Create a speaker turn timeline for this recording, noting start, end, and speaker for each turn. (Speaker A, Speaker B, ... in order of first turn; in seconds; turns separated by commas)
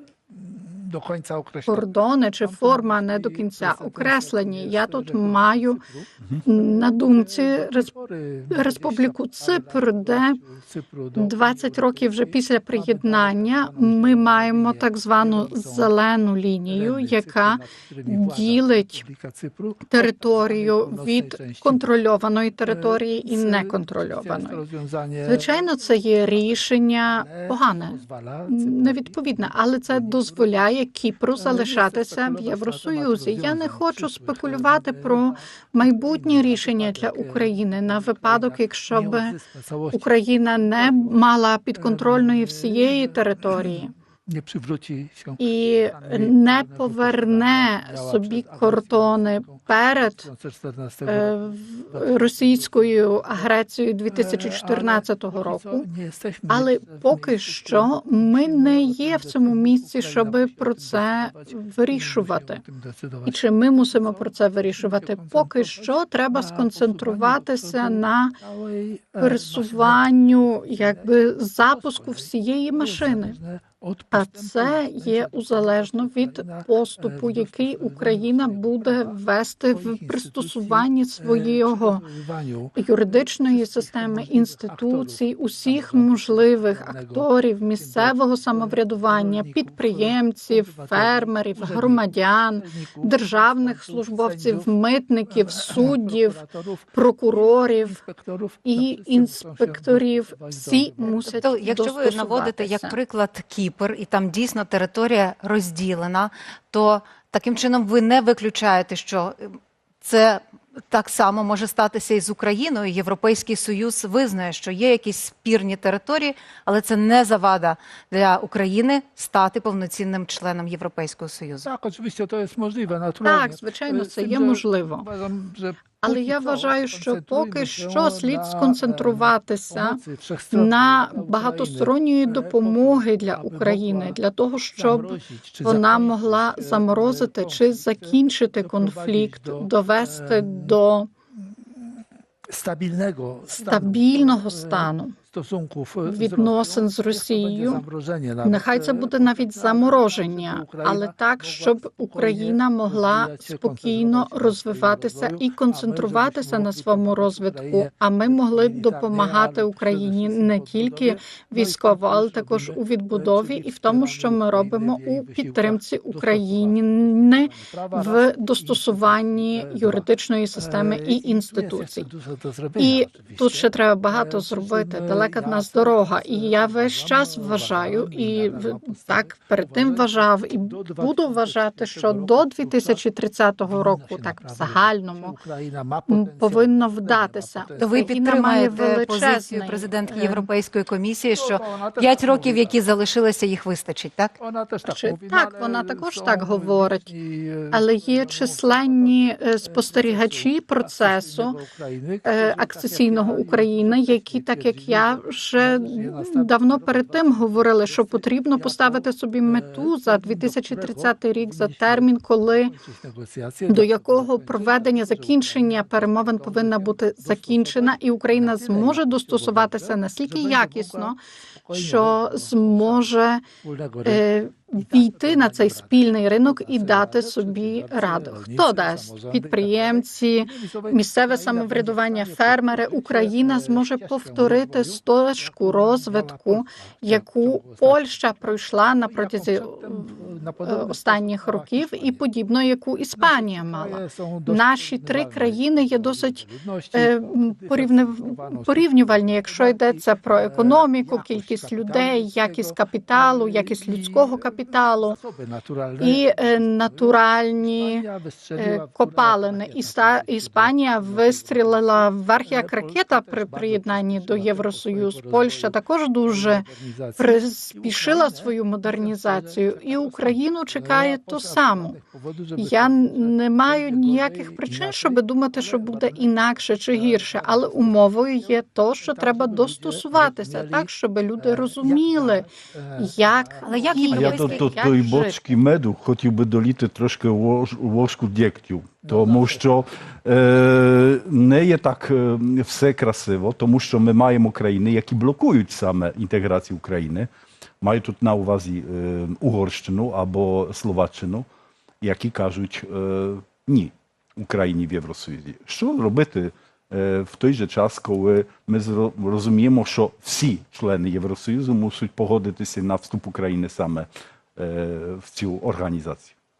Speaker A: 0.3-1.9, Speaker B: 1.7-5.8, Speaker A: 2.4-15.9, Speaker B: 6.5-7.9, Speaker B: 8.5-10.4, Speaker B: 11.2-19.0, Speaker A: 16.7-21.9, Speaker B: 19.9-24.6, Speaker A: 22.7-25.5, Speaker B: 25.2-39.4, Speaker A: 27.1-30.5, Speaker A: 31.4-40.1, Speaker B: 39.9-43.9, Speaker A: 40.7-41.1, Speaker A: 41.8-53.5, Speaker B: 45.4-50.3, Speaker B: 51.1-55.9, Speaker A: 54.1-63.4, Speaker B: 56.5-62.6, Speaker B: 63.3-68.4, Speaker A: 63.9-79.2, Speaker B: 69.2-73.4, Speaker B: 74.1-82.0, Speaker A: 79.7-94.7, Speaker B: 82.8-96.4, Speaker A: 95.3-101.5, Speaker B: 97.0-98.0, Speaker B: 98.7-103.0, Speaker C: 101.0-121.7, Speaker A: 121.6-134.2, Speaker B: 123.2-125.1, Speaker B: 125.9-130.0, Speaker B: 130.5-141.1, Speaker A: 134.8-140.8, Speaker A: 142.5-183.0, Speaker B: 143.5-145.2, Speaker B: 146.1-147.8, Speaker B: 148.4-172.1, Speaker B: 172.8-185.4, Speaker A: 183.7-188.1, Speaker B: 186.1-190.5, Speaker C: 187.8-194.3, Speaker A: 191.3-192.8, Speaker A: 194.4-238.4, Speaker B: 194.9-197.1, Speaker B: 197.7-201.6, Speaker B: 202.2-212.7, Speaker B: 213.7-221.2, Speaker B: 221.7-223.4, Speaker B: 224.1-246.4, Speaker A: 239.1-242.2, Speaker A: 243.2-284.1, Speaker B: 246.9-255.2, Speaker B: 256.0-258.1, Speaker B: 258.6-266.7, Speaker B: 267.2-272.0, Speaker B: 272.6-285.4, Speaker C: 283.6-284.9, Speaker D: 284.1-297.3, Speaker A: 289.1-289.6, Speaker D: 297.8-301.5, Speaker D: 302.0-316.3